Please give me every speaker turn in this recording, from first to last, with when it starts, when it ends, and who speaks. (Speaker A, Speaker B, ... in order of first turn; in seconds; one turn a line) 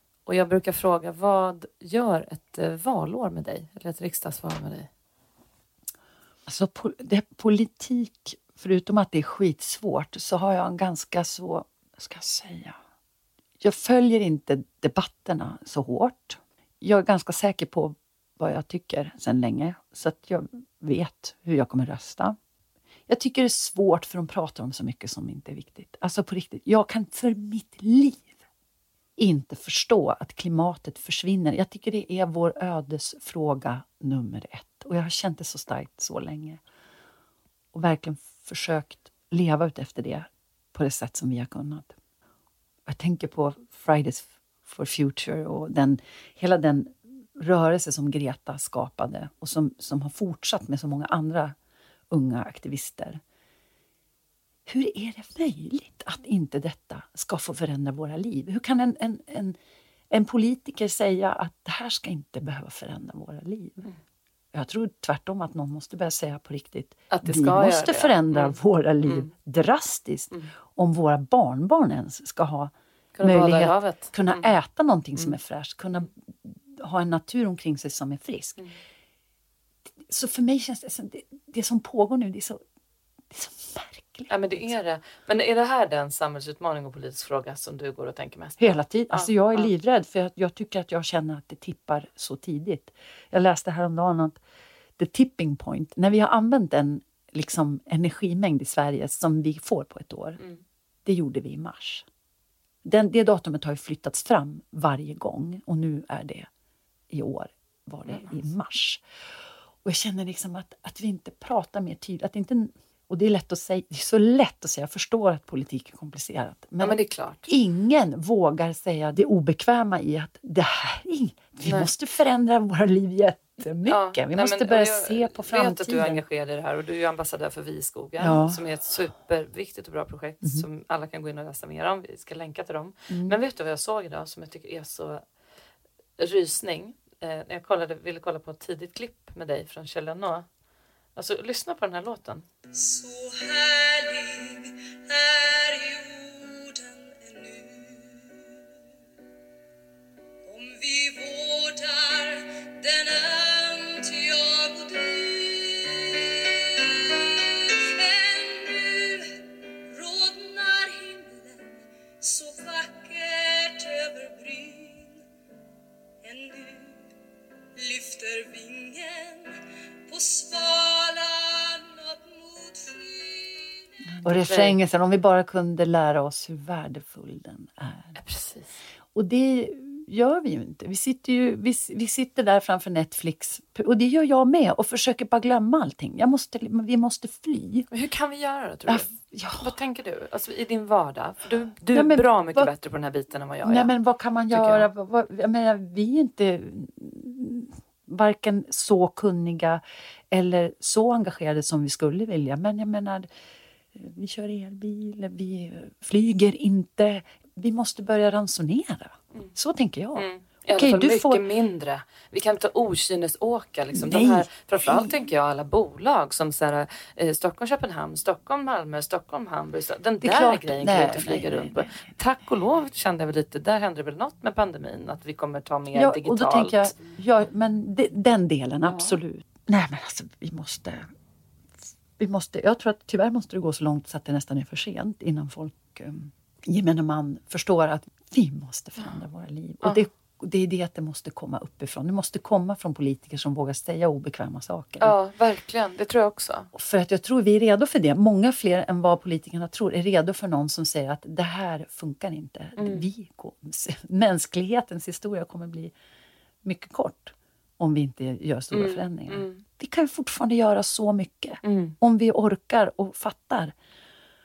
Speaker A: 0.2-4.9
Speaker B: 6.5-12.8
Speaker B: 13.6-22.4
Speaker B: 23.1-28.3
Speaker B: 29.2-36.6
Speaker B: 37.7-42.0
Speaker B: 42.9-51.5
Speaker B: 52.1-53.2
Speaker B: 54.7-59.6
Speaker B: 60.1-63.8
Speaker B: 64.5-72.7
Speaker A: 67.1-69.3
Speaker A: 73.1-74.5
Speaker B: 73.2-78.6
Speaker B: 80.1-82.6
Speaker B: 83.3-84.7
Speaker A: 84.3-89.7
Speaker B: 88.6-94.4
Speaker B: 95.0-100.4
Speaker B: 101.0-102.1
Speaker B: 102.8-106.5
Speaker B: 107.1-109.0
Speaker B: 109.8-126.2
Speaker A: 116.8-117.5
Speaker A: 121.6-121.9
Speaker A: 123.8-135.2
Speaker B: 128.2-128.6
Speaker B: 133.1-133.4
Speaker A: 136.2-140.5
Speaker A: 141.2-142.5
Speaker C: 142.7-148.6
Speaker C: 150.4-165.2
Speaker C: 166.2-167.1
Speaker C: 167.8-173.8
Speaker B: 174.2-178.1
Speaker A: 174.2-174.8
Speaker A: 178.2-178.8
Speaker B: 179.1-187.9
Speaker A: 187.9-193.9
Speaker B: 188.9-189.8
Speaker B: 191.9-192.7
Speaker B: 193.6-203.3
Speaker A: 194.5-194.9
Speaker B: 203.9-211.4
Speaker A: 210.2-226.9
Speaker B: 213.9-215.2
Speaker B: 220.2-222.0
Speaker B: 225.9-231.1
Speaker A: 228.9-229.2
Speaker B: 232.2-245.2
Speaker A: 245.0-246.7
Speaker B: 246.7-255.9
Speaker A: 252.8-253.1
Speaker B: 256.6-263.7
Speaker A: 258.7-259.6
Speaker A: 261.6-261.9